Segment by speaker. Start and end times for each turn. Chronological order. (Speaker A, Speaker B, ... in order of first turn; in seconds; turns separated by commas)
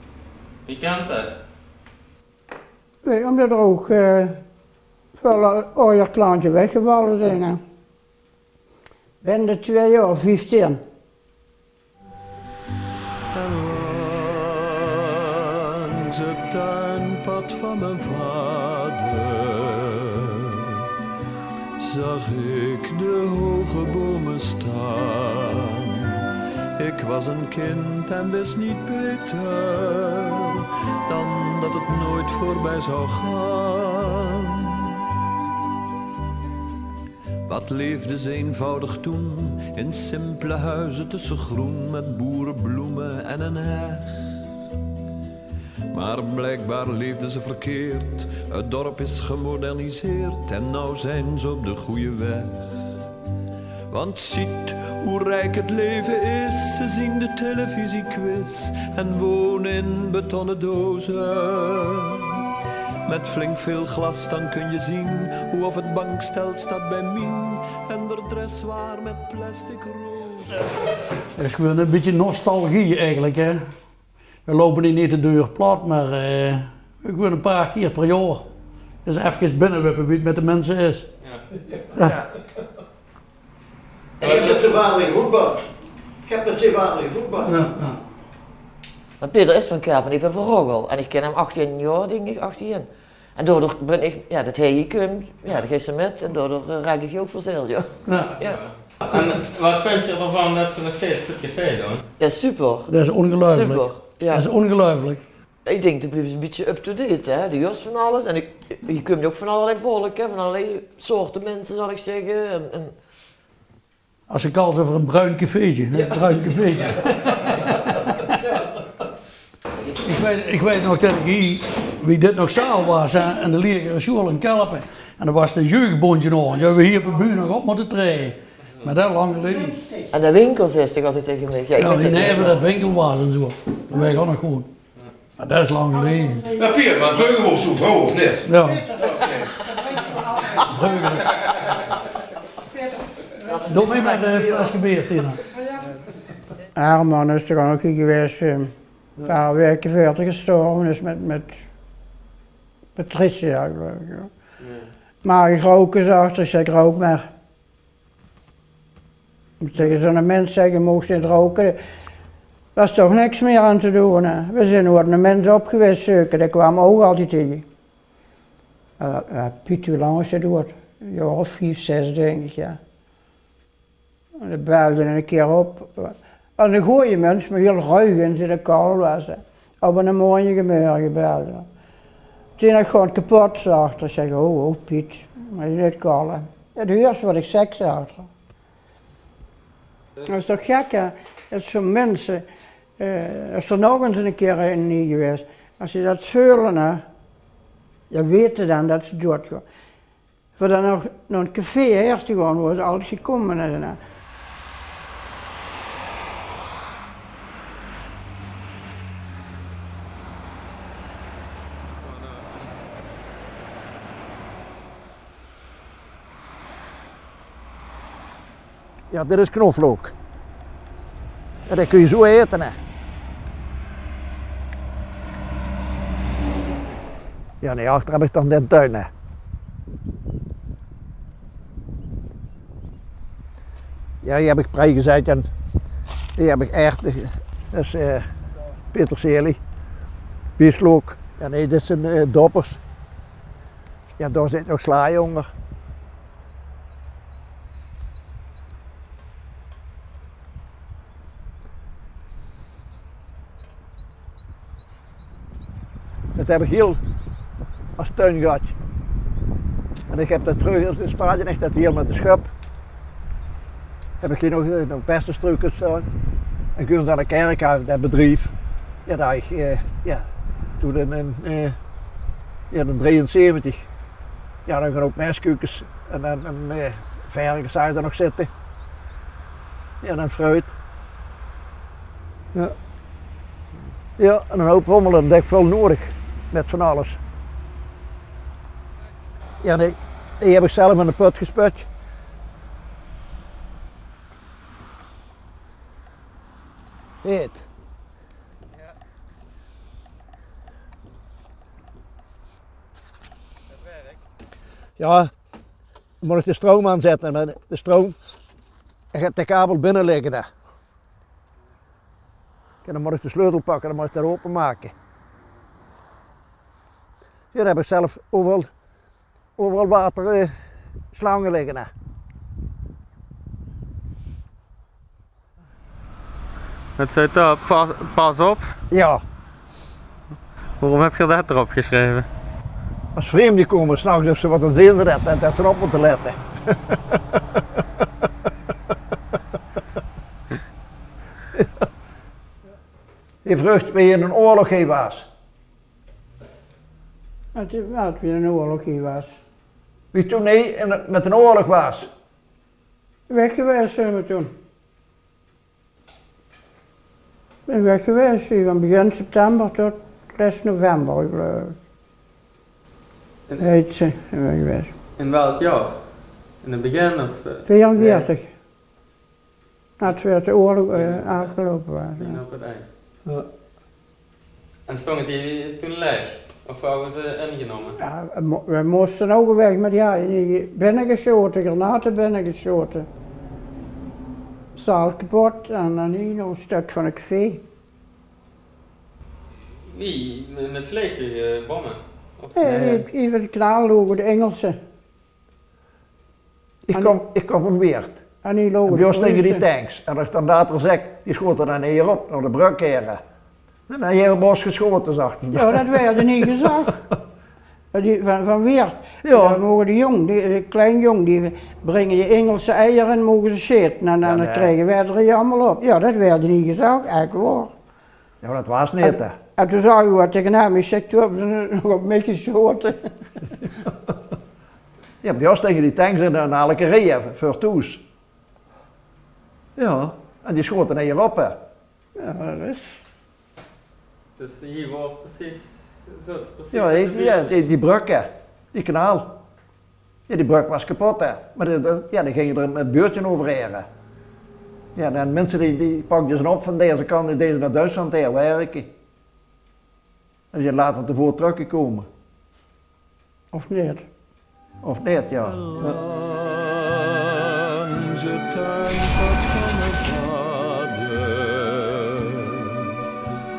Speaker A: 0.7-1.3, Speaker B: 3.0-4.4, Speaker B: 5.2-7.6, Speaker B: 9.2-10.8, Speaker C: 13.3-20.9, Speaker C: 21.8-35.0, Speaker C: 37.5-44.1, Speaker C: 45.9-52.7, Speaker C: 53.9-62.5, Speaker C: 63.0-70.6, Speaker D: 71.4-73.7, Speaker D: 74.5-78.5, Speaker D: 79.0-81.1, Speaker E: 81.9-82.3, Speaker E: 84.2-85.7, Speaker A: 84.2-84.6, Speaker E: 86.2-87.6, Speaker D: 87.4-88.0, Speaker F: 89.2-98.6, Speaker D: 98.0-98.3, Speaker A: 98.3-102.0, Speaker F: 102.2-104.5, Speaker D: 102.9-105.2, Speaker F: 105.7-112.9, Speaker D: 114.3-118.4, Speaker F: 115.9-116.2, Speaker D: 120.0-129.8, Speaker B: 129.5-130.1, Speaker F: 130.1-132.6, Speaker D: 131.8-134.7, Speaker D: 135.4-136.4, Speaker G: 136.6-138.6, Speaker B: 136.6-137.2, Speaker D: 138.4-138.8, Speaker B: 138.9-140.6, Speaker G: 139.2-139.5, Speaker D: 140.7-141.3, Speaker F: 143.4-144.8, Speaker D: 143.6-145.4, Speaker B: 146.8-151.6, Speaker B: 153.0-154.3, Speaker A: 154.6-154.9, Speaker B: 155.2-157.3, Speaker B: 159.6-161.8, Speaker B: 162.8-167.7, Speaker B: 169.0-172.8, Speaker B: 174.4-181.7, Speaker B: 182.6-188.3, Speaker B: 190.3-192.4, Speaker B: 193.0-197.0, Speaker B: 198.1-199.7, Speaker B: 200.6-204.0, Speaker E: 219.1-220.1, Speaker E: 221.7-222.8, Speaker E: 227.6-229.1, Speaker E: 234.2-235.5, Speaker E: 236.4-238.3, Speaker E: 238.9-239.6, Speaker E: 240.6-242.8, Speaker E: 244.2-245.5, Speaker E: 256.4-257.0, Speaker E: 258.0-258.8, Speaker E: 260.1-262.5, Speaker E: 264.2-266.1, Speaker E: 266.8-268.5, Speaker E: 269.1-270.3, Speaker E: 270.8-271.8, Speaker E: 272.7-273.9, Speaker E: 274.7-278.5, Speaker E: 280.0-280.8, Speaker E: 284.2-287.2, Speaker E: 289.6-291.9, Speaker E: 297.2-297.7, Speaker E: 305.0-305.3, Speaker E: 306.2-308.2, Speaker E: 309.1-310.5, Speaker E: 312.8-314.9, Speaker E: 317.5-318.7, Speaker E: 319.6-320.5, Speaker E: 321.1-321.9, Speaker A: 327.0-328.7, Speaker E: 328.9-329.2, Speaker A: 330.8-332.3, Speaker E: 333.1-336.4, Speaker E: 343.4-345.3, Speaker B: 347.5-349.3, Speaker E: 350.1-352.1, Speaker B: 353.3-354.5, Speaker B: 357.7-361.8, Speaker B: 363.6-364.9, Speaker A: 365.2-366.0, Speaker A: 366.6-368.2, Speaker B: 367.7-368.5, Speaker B: 370.0-372.4, Speaker A: 370.9-371.5, Speaker A: 372.2-372.9, Speaker A: 374.9-378.0, Speaker B: 378.0-383.1, Speaker B: 384.7-387.6, Speaker A: 389.9-392.6, Speaker B: 392.6-394.8, Speaker E: 392.6-393.1, Speaker E: 396.9-398.2, Speaker B: 398.4-399.6, Speaker E: 398.9-403.2, Speaker E: 403.9-406.7, Speaker B: 405.5-407.0, Speaker B: 407.9-417.7, Speaker E: 409.2-409.6, Speaker E: 414.2-414.8, Speaker E: 418.4-419.4, Speaker B: 419.0-423.1, Speaker E: 425.2-428.0, Speaker E: 429.8-431.6, Speaker B: 432.2-433.0, Speaker A: 434.4-437.7, Speaker E: 436.7-439.4, Speaker E: 440.3-443.9, Speaker E: 445.0-448.9, Speaker E: 450.5-452.1, Speaker B: 453.5-454.1, Speaker E: 454.8-456.0, Speaker C: 455.4-463.0